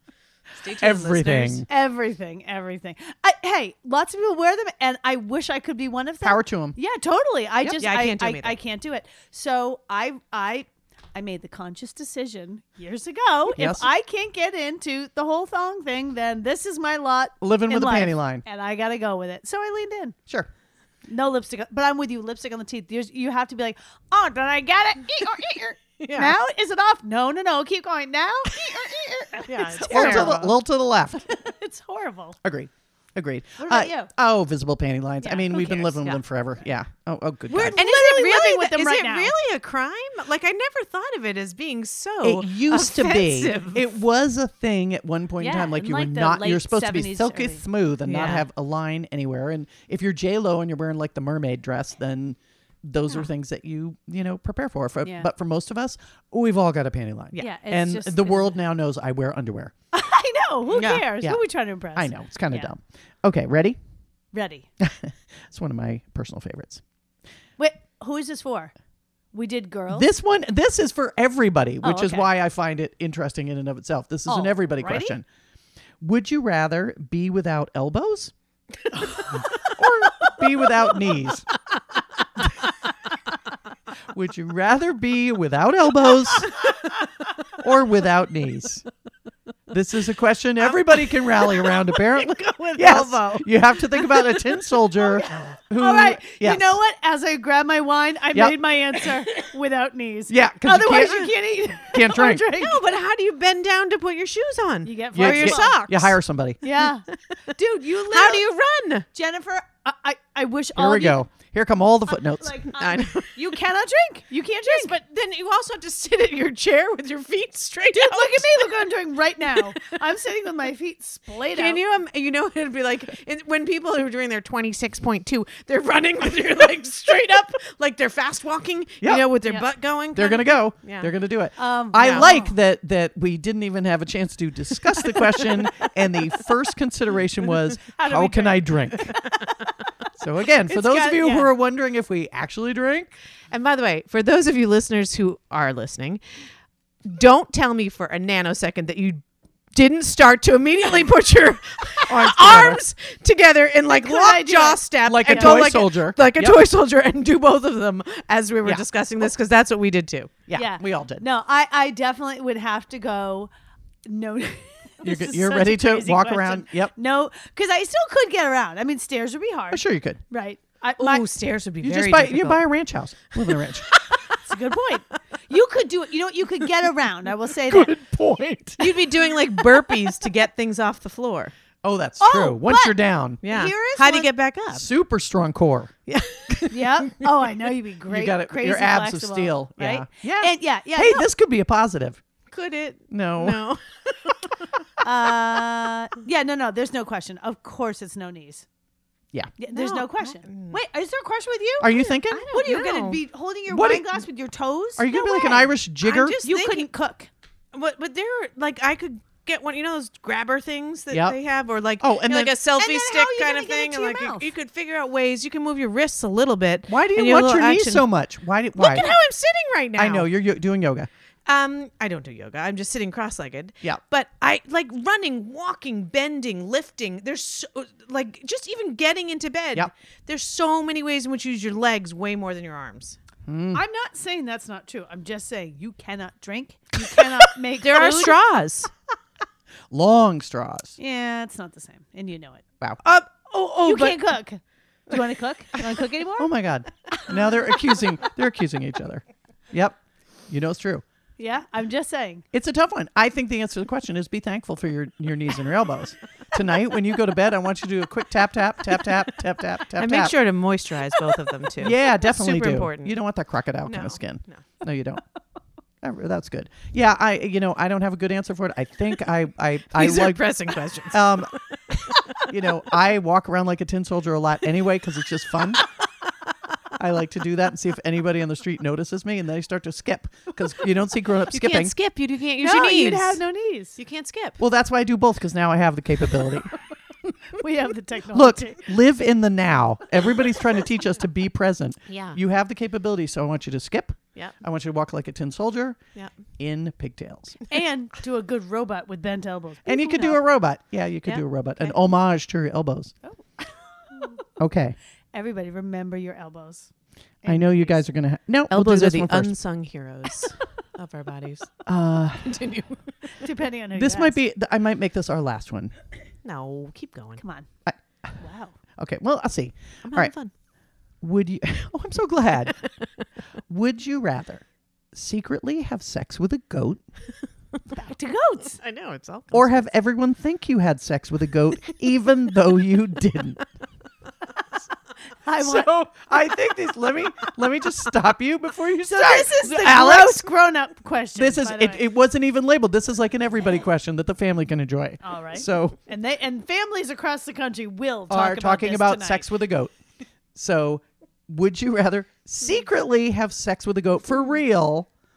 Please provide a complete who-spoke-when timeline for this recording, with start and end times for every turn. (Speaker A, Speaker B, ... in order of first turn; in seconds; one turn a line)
Speaker A: 0.6-1.6
Speaker B: 0.8-1.7
Speaker C: 1.7-20.2
Speaker B: 6.2-6.8
Speaker A: 7.8-8.6
Speaker B: 13.5-13.9
Speaker B: 17.4-18.4
Speaker C: 21.1-30.6
Speaker A: 26.0-26.4
Speaker A: 29.5-30.4
Speaker B: 29.8-31.2
Speaker C: 31.2-32.4
Speaker B: 32.4-37.8
Speaker C: 33.6-34.1
Speaker C: 35.2-36.2
Speaker C: 37.5-39.3
Speaker A: 37.7-43.9
Speaker B: 42.2-59.7
Speaker C: 45.4-47.6
Speaker A: 48.0-48.5
Speaker C: 55.0-55.3
Speaker C: 57.4-58.6
Speaker C: 59.9-62.7
Speaker A: 60.7-61.1
Speaker B: 62.0-63.8
Speaker C: 64.3-64.7
Speaker B: 64.8-66.8
Speaker C: 67.6-68.7
Speaker C: 69.3-70.1
Speaker B: 69.9-75.2
Speaker C: 71.8-72.3
Speaker C: 74.3-75.2
Speaker B: 76.0-78.3
Speaker A: 78.9-79.7
Speaker B: 79.1-81.5
Speaker B: 84.1-86.7
Speaker B: 87.5-88.8
Speaker B: 89.7-96.8
Speaker C: 92.2-93.4
Speaker C: 95.0-102.8
Speaker B: 100.3-101.3
Speaker B: 101.8-102.5
Speaker A: 102.5-106.2
Speaker C: 104.8-105.8
Speaker B: 105.2-106.6
Speaker C: 106.6-108.5
Speaker A: 108.0-109.1
Speaker C: 109.1-111.2
Speaker B: 110.8-112.7
Speaker C: 112.3-115.0
Speaker A: 112.8-113.5
Speaker A: 114.7-118.7
Speaker C: 117.9-121.8
Speaker A: 121.5-131.1
Speaker B: 129.0-129.3
Speaker B: 130.1-139.2
Speaker C: 131.6-132.5
Speaker A: 132.0-132.3
Speaker A: 135.0-135.5
Speaker C: 137.9-139.2
Speaker B: 140.2-143.1
Speaker C: 140.7-141.5
Speaker A: 143.5-146.2
Speaker A: 147.1-149.2
Speaker A: 149.7-160.3
Speaker B: 152.1-152.8
Speaker C: 153.9-155.7
Speaker B: 155.1-156.6
Speaker B: 158.7-159.2
Speaker B: 160.5-161.2
Speaker C: 160.5-163.5
Speaker C: 164.1-171.2
Speaker B: 165.0-166.9
Speaker B: 169.7-170.2
Speaker A: 171.0-172.7
Speaker B: 171.8-173.9
Speaker A: 173.3-174.4
Speaker C: 174.4-177.9
Speaker B: 177.7-179.1
Speaker A: 178.8-181.5
Speaker B: 181.8-183.4
Speaker C: 182.2-184.3
Speaker A: 183.4-184.9
Speaker B: 184.7-185.9
Speaker A: 186.1-187.1
Speaker C: 186.7-191.3
Speaker B: 188.1-192.2
Speaker A: 192.5-194.7
Speaker B: 193.1-193.7
Speaker C: 195.0-198.7
Speaker C: 199.6-205.8
Speaker A: 199.7-200.8
Speaker B: 201.8-202.5
Speaker A: 202.5-203.2
Speaker B: 203.7-204.2
Speaker B: 205.0-206.4
Speaker A: 206.0-206.9
Speaker C: 206.4-207.3
Speaker A: 207.7-218.1
Speaker B: 211.1-211.4
Speaker B: 212.0-212.6
Speaker C: 212.8-214.5
Speaker B: 216.9-219.1
Speaker A: 218.8-220.3
Speaker B: 220.0-221.1
Speaker A: 221.5-233.2
Speaker B: 233.4-233.8
Speaker C: 233.7-238.4
Speaker A: 237.8-238.9
Speaker B: 239.9-241.0
Speaker C: 241.0-242.6
Speaker A: 243.0-244.3
Speaker C: 243.8-246.5
Speaker B: 246.4-250.0
Speaker B: 250.5-251.0
Speaker C: 251.4-252.4
Speaker B: 252.5-260.3
Speaker A: 260.0-263.2
Speaker B: 261.8-265.2
Speaker A: 263.9-264.6
Speaker B: 266.0-270.5
Speaker A: 269.9-272.4
Speaker B: 271.1-275.8
Speaker B: 277.0-281.9
Speaker A: 281.5-283.4
Speaker C: 282.6-284.0
Speaker A: 284.0-284.6
Speaker B: 284.6-286.7
Speaker C: 287.6-288.8
Speaker B: 288.3-296.0
Speaker A: 292.1-292.4
Speaker B: 296.6-297.6
Speaker C: 297.7-300.4
Speaker B: 299.9-303.1
Speaker C: 303.3-304.4
Speaker B: 304.6-305.0
Speaker C: 305.3-306.9
Speaker C: 307.4-308.0
Speaker B: 307.5-309.5
Speaker A: 308.7-311.7
Speaker B: 311.9-312.6
Speaker A: 312.4-313.0
Speaker C: 313.4-314.4
Speaker B: 313.9-315.9
Speaker A: 316.4-317.4
Speaker C: 317.4-317.7
Speaker B: 317.9-318.4
Speaker C: 318.4-318.7
Speaker B: 319.0-320.3
Speaker A: 320.1-320.5
Speaker B: 321.2-322.8
Speaker B: 323.7-327.0
Speaker C: 327.9-328.8
Speaker A: 328.8-329.9
Speaker B: 329.5-333.6
Speaker C: 335.4-335.9
Speaker B: 335.6-340.5
Speaker C: 339.1-342.0
Speaker B: 341.4-346.0
Speaker C: 345.2-349.5
Speaker B: 348.3-349.9
Speaker B: 350.6-355.1